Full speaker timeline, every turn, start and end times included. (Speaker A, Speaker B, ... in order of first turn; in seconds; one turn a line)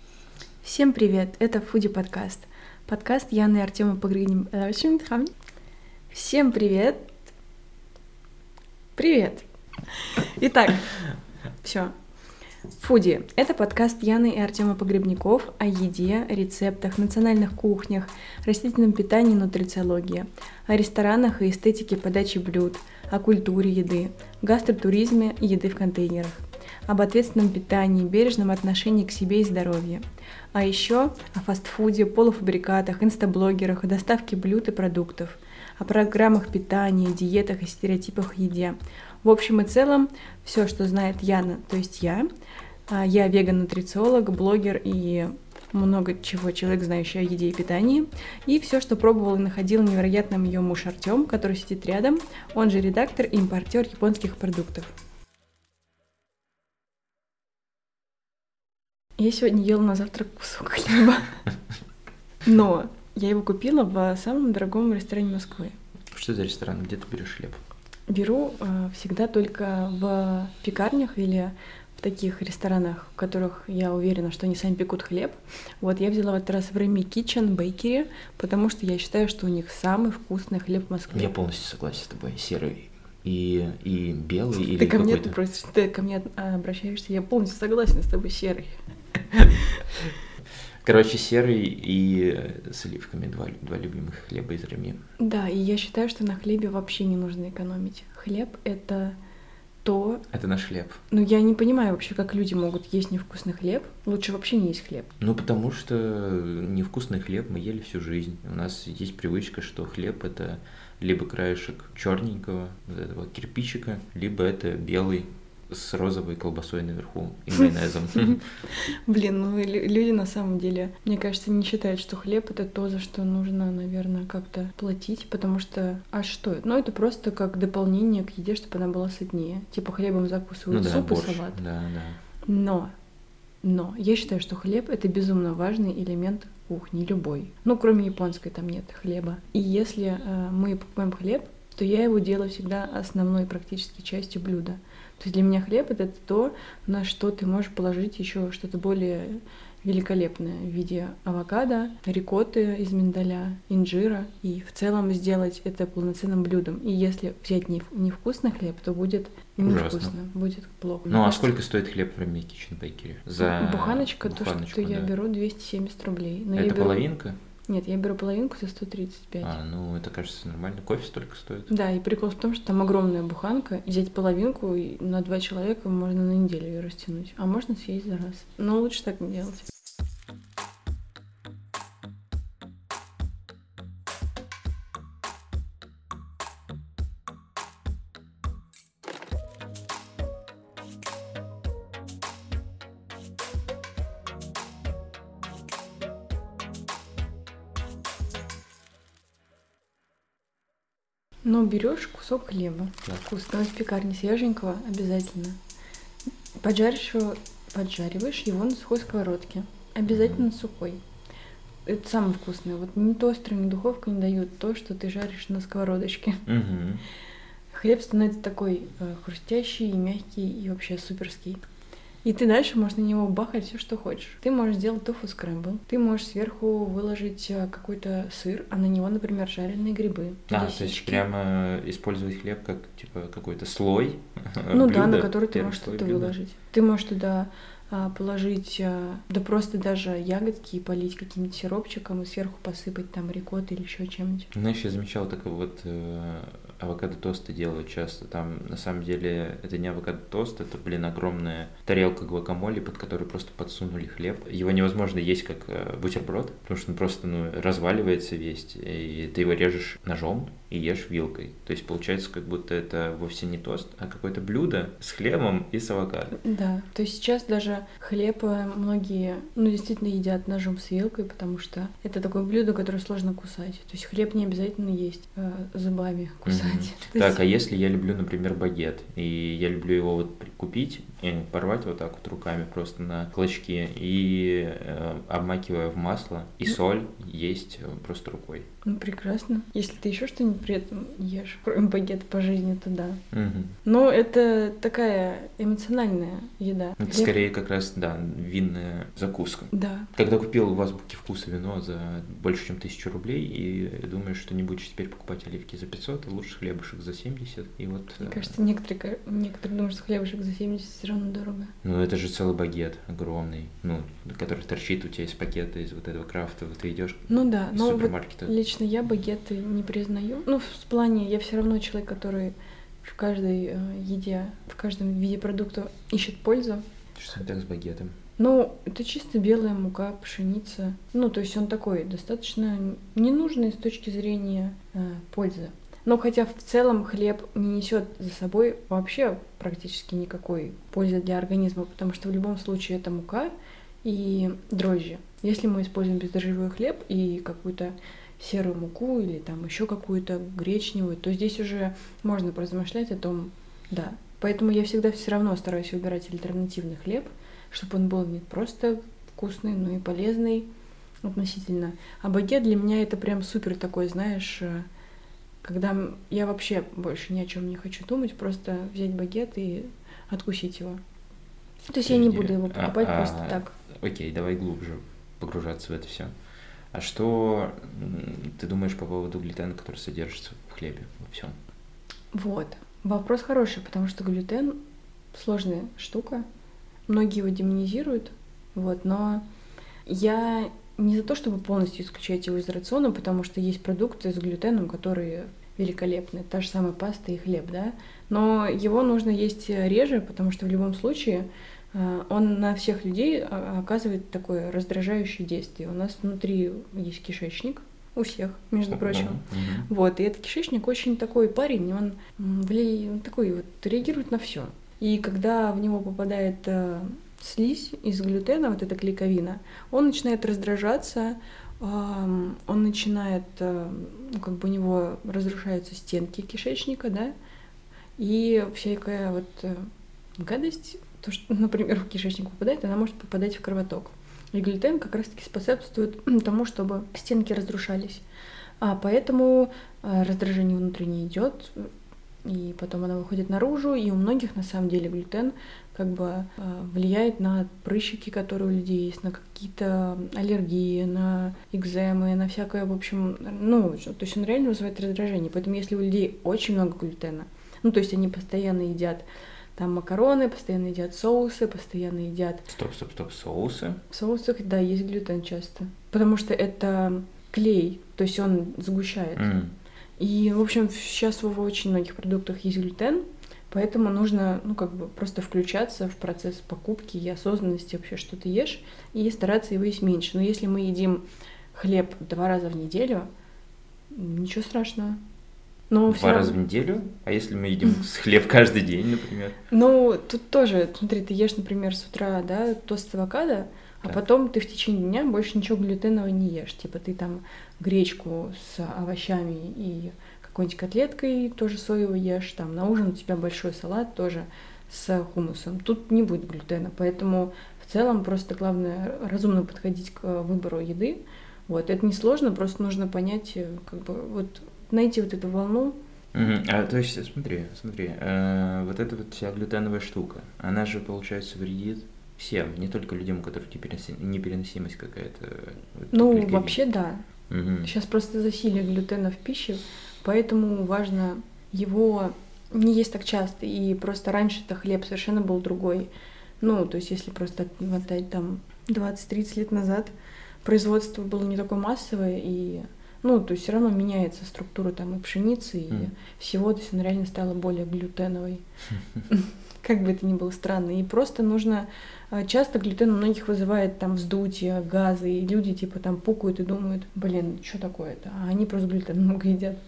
Speaker A: 0.6-5.3
Speaker A: 6.1-7.1
Speaker A: 8.9-11.0
Speaker A: 11.6-11.9
Speaker A: 12.8-42.3
Speaker A: 42.9-54.9
Speaker A: 59.2-61.4
Speaker A: 62.4-65.7
Speaker B: 66.1-67.6
Speaker A: 68.1-81.3
Speaker B: 81.1-85.4
Speaker A: 84.7-88.8
Speaker A: 89.3-89.8
Speaker B: 90.8-95.0
Speaker A: 95.2-99.2
Speaker A: 99.8-100.2
Speaker B: 100.3-101.0
Speaker A: 101.1-105.1
Speaker B: 105.2-118.4
Speaker A: 118.7-131.6
Speaker B: 130.7-132.2
Speaker A: 132.4-132.9
Speaker A: 133.6-161.5
Speaker B: 159.6-160.1
Speaker B: 161.1-165.1
Speaker A: 163.4-167.1
Speaker B: 166.6-167.4
Speaker A: 167.7-169.6
Speaker B: 169.4-171.7
Speaker A: 171.7-179.7
Speaker A: 201.4-205.6
Speaker A: 206.6-211.0
Speaker B: 210.1-210.4
Speaker A: 211.8-216.4
Speaker B: 216.4-217.0
Speaker A: 217.7-221.6
Speaker A: 222.2-231.2
Speaker B: 230.5-236.3
Speaker A: 234.7-244.5
Speaker B: 244.5-266.4
Speaker A: 266.4-277.4
Speaker B: 276.4-288.7
Speaker A: 288.8-293.2
Speaker B: 293.3-293.8
Speaker A: 293.8-297.3
Speaker B: 297.0-308.5
Speaker A: 299.7-300.1
Speaker A: 308.2-311.7
Speaker B: 311.8-318.5
Speaker A: 317.3-326.8
Speaker B: 327.1-328.1
Speaker A: 328.4-343.5
Speaker A: 344.0-360.7
Speaker A: 361.2-364.9
Speaker A: 365.6-371.0
Speaker A: 371.8-373.7
Speaker B: 372.1-376.3
Speaker B: 376.9-381.5
Speaker A: 382.3-384.8
Speaker A: 385.3-386.4
Speaker A: 387.1-389.4
Speaker A: 390.1-427.3
Speaker B: 408.9-409.9
Speaker A: 428.2-438.2
Speaker A: 438.8-441.9
Speaker A: 442.4-462.7
Speaker B: 462.7-464.0
Speaker A: 464.1-469.4
Speaker B: 469.4-469.7
Speaker A: 470.2-483.3
Speaker A: 484.1-485.2
Speaker A: 485.9-486.6
Speaker B: 486.1-489.6
Speaker A: 489.7-516.0
Speaker B: 516.3-526.8
Speaker A: 526.1-527.2
Speaker B: 527.5-527.9
Speaker A: 527.8-548.6
Speaker A: 549.3-559.8